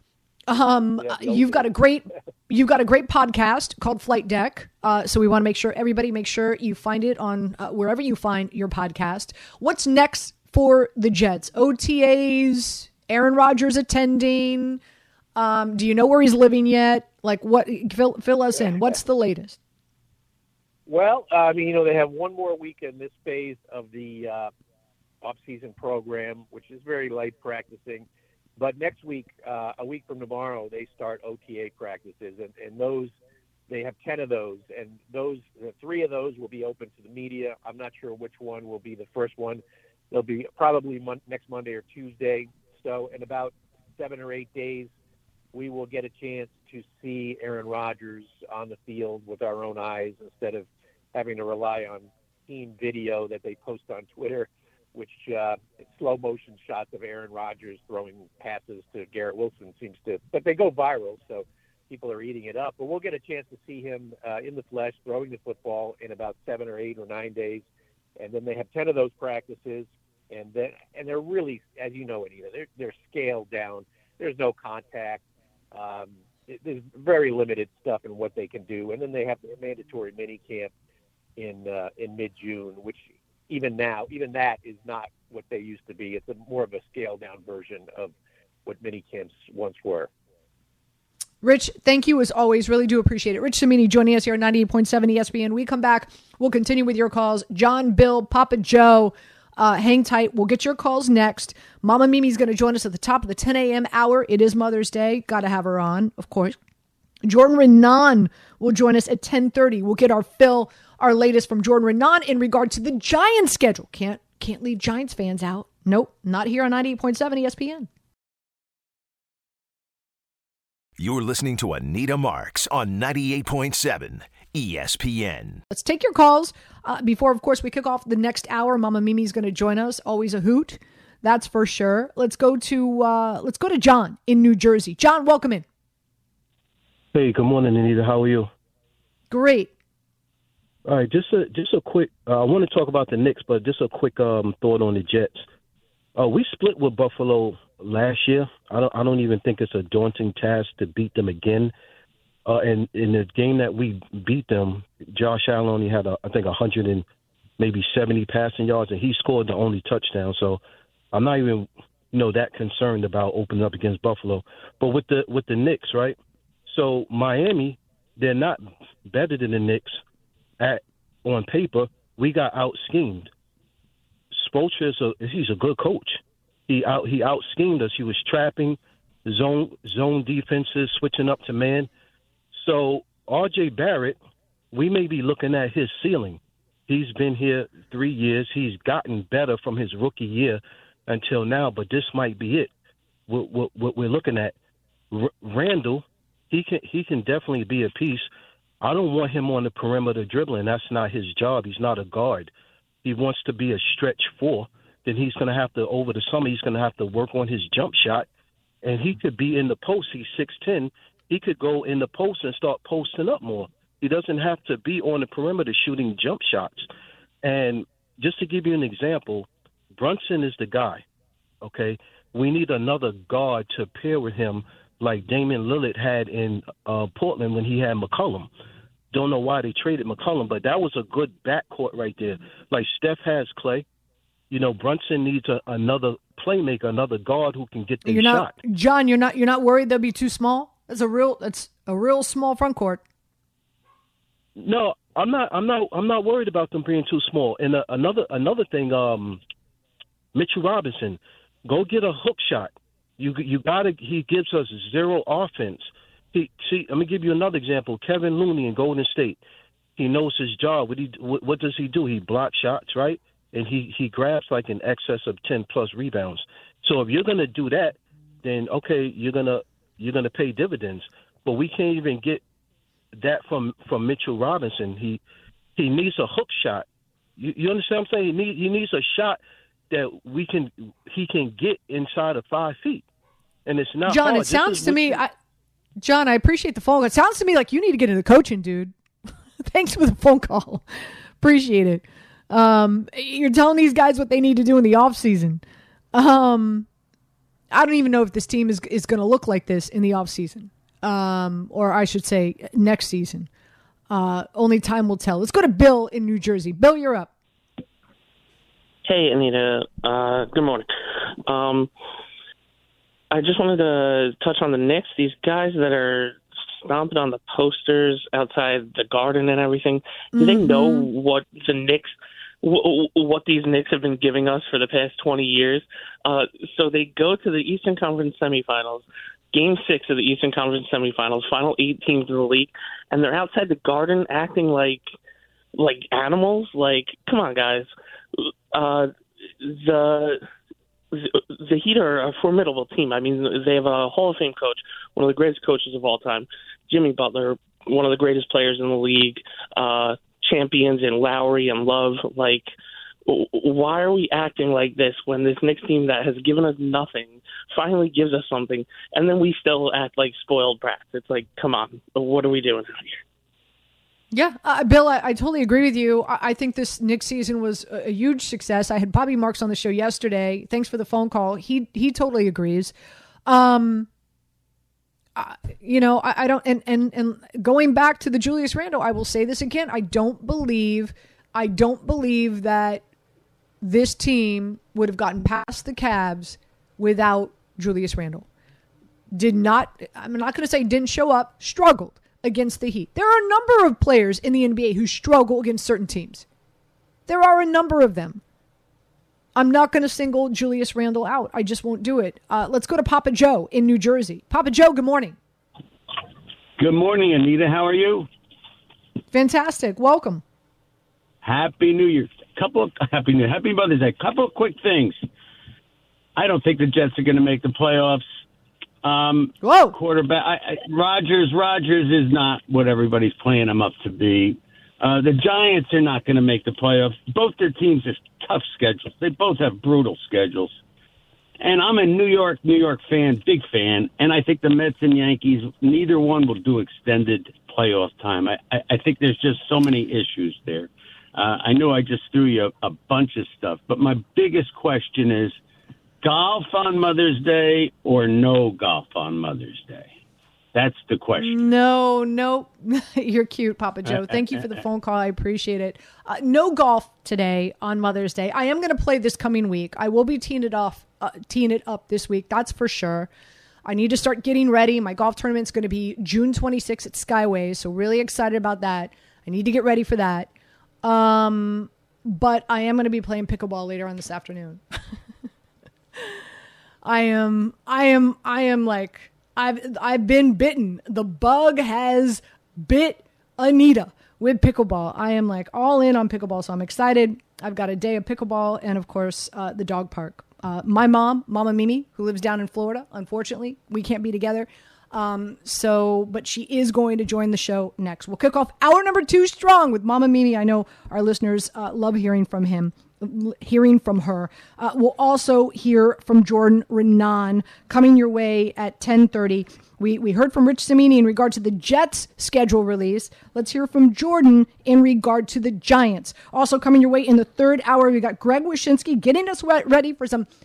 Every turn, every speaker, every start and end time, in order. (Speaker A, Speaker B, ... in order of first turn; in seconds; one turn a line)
Speaker A: 0.5-14.8
Speaker B: 1.0-1.7
Speaker A: 15.4-19.6
Speaker B: 20.9-24.5
Speaker B: 25.2-28.1
Speaker B: 28.6-33.1
Speaker B: 33.7-44.9
Speaker B: 45.5-67.7
Speaker B: 68.2-75.2
Speaker B: 75.7-80.7
Speaker B: 81.4-88.1
Speaker B: 88.7-90.1
Speaker A: 91.4-106.6
Speaker A: 107.2-117.9
Speaker C: 121.0-125.6
Speaker A: 125.7-135.7
Speaker D: 137.1-138.5
Speaker A: 139.3-139.7
Speaker D: 140.9-145.4
Speaker D: 146.2-151.7
Speaker D: 152.5-157.1
Speaker D: 157.6-160.6
Speaker D: 161.1-170.0
Speaker D: 170.6-173.3
Speaker D: 174.3-181.9
Speaker D: 182.5-184.2
Speaker D: 184.7-192.7
Speaker D: 193.3-194.6
Speaker D: 195.1-198.3
Speaker D: 198.8-202.5
Speaker D: 203.0-208.3
Speaker D: 208.8-216.9
Speaker D: 217.4-221.0
Speaker D: 221.6-228.5
Speaker D: 229.1-233.9
Speaker D: 234.5-238.6
Speaker A: 238.1-243.0
Speaker D: 244.6-249.4
Speaker D: 250.3-259.4
Speaker D: 260.0-272.4
Speaker D: 273.2-275.2
Speaker D: 275.8-276.9
Speaker D: 277.4-279.4
Speaker D: 279.9-283.1
Speaker D: 283.7-285.2
Speaker A: 284.1-285.3
Speaker A: 286.0-288.9
Speaker A: 289.6-290.9
Speaker A: 291.4-295.6
Speaker A: 296.1-296.9
Speaker A: 297.7-303.5
Speaker A: 304.1-307.3
Speaker E: 309.1-310.9
Speaker E: 311.5-311.9
Speaker E: 313.3-335.1
Speaker A: 320.3-321.1
Speaker E: 335.8-340.4
Speaker E: 341.1-352.7
Speaker E: 353.3-363.2
Speaker A: 364.3-372.9
Speaker A: 373.5-374.1
Speaker A: 375.4-383.0
Speaker A: 383.8-388.5
Speaker A: 389.3-396.4
Speaker A: 397.3-398.4
Speaker A: 399.6-405.4
Speaker F: 406.8-408.3
Speaker A: 409.3-410.4
Speaker F: 411.4-415.3
Speaker F: 416.4-418.2
Speaker F: 419.0-430.7
Speaker A: 419.6-420.0
Speaker F: 431.6-445.6
Speaker F: 446.2-450.1
Speaker F: 450.8-451.6
Speaker A: 451.4-463.3
Speaker A: 463.9-470.5
Speaker A: 471.0-474.8
Speaker A: 477.0-520.5